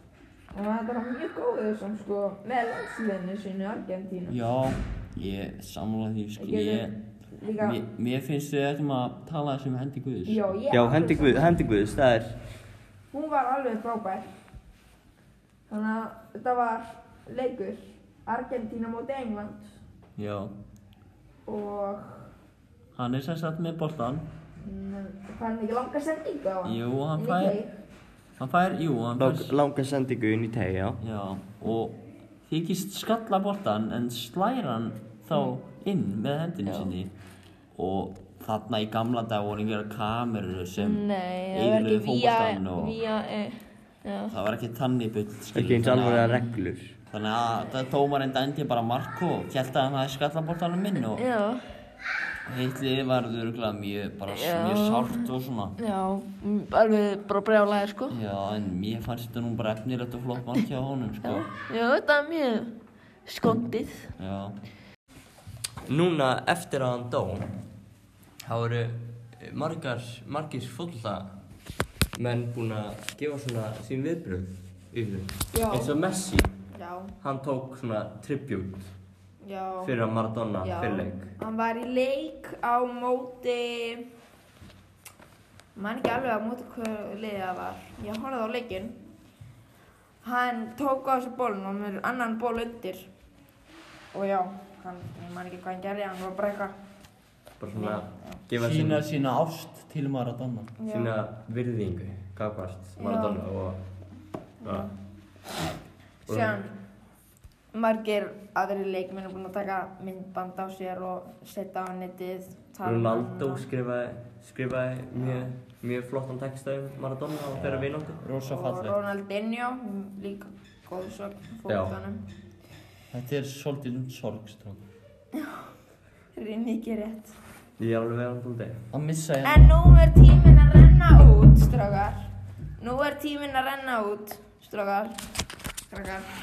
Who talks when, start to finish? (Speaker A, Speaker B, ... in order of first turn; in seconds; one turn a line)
Speaker A: 0.5-4.3
Speaker B: 4.3-7.0
Speaker A: 6.4-7.8
Speaker B: 7.5-10.4
Speaker A: 10.3-11.6
Speaker C: 10.7-12.4
Speaker A: 13.1-14.3
Speaker A: 15.7-19.7
Speaker B: 20.2-20.5
Speaker A: 21.5-22.3
Speaker B: 22.9-24.3
Speaker A: 24.6-27.7
Speaker B: 26.6-27.6
Speaker B: 28.4-29.5
Speaker C: 29.2-31.0
Speaker B: 31.0-37.1
Speaker D: 36.6-36.9
Speaker B: 37.7-43.0
Speaker D: 40.8-44.3
Speaker B: 44.3-46.4
Speaker C: 45.5-47.0
Speaker B: 47.1-51.2
Speaker D: 51.1-51.6
Speaker B: 52.5-55.8
Speaker D: 54.3-58.1
Speaker B: 58.1-61.5
Speaker D: 61.2-62.7
Speaker D: 63.2-64.1
Speaker B: 64.2-64.6
Speaker C: 65.9-67.5
Speaker C: 68.4-71.3
Speaker C: 72.1-76.5
Speaker A: 75.5-75.9
Speaker A: 76.7-77.1
Speaker C: 77.2-78.9
Speaker A: 79.4-79.9
Speaker C: 79.8-81.3
Speaker A: 80.6-84.1
Speaker A: 85.7-89.0
Speaker A: 90.2-93.1
Speaker A: 94.1-96.7
Speaker C: 97.6-99.0
Speaker A: 97.7-98.4
Speaker B: 98.6-100.7
Speaker A: 100.8-101.1
Speaker C: 100.9-103.8
Speaker A: 103.0-103.4
Speaker A: 104.6-104.9
Speaker C: 104.6-104.9
Speaker C: 106.3-106.6
Speaker A: 106.3-106.7
Speaker A: 107.7-113.7
Speaker C: 112.8-118.2
Speaker B: 117.5-119.0
Speaker A: 118.4-122.2
Speaker C: 121.7-122.0
Speaker B: 123.1-124.8
Speaker A: 126.3-127.3
Speaker C: 127.8-128.8
Speaker B: 128.9-129.8
Speaker A: 129.4-135.2
Speaker A: 135.9-136.3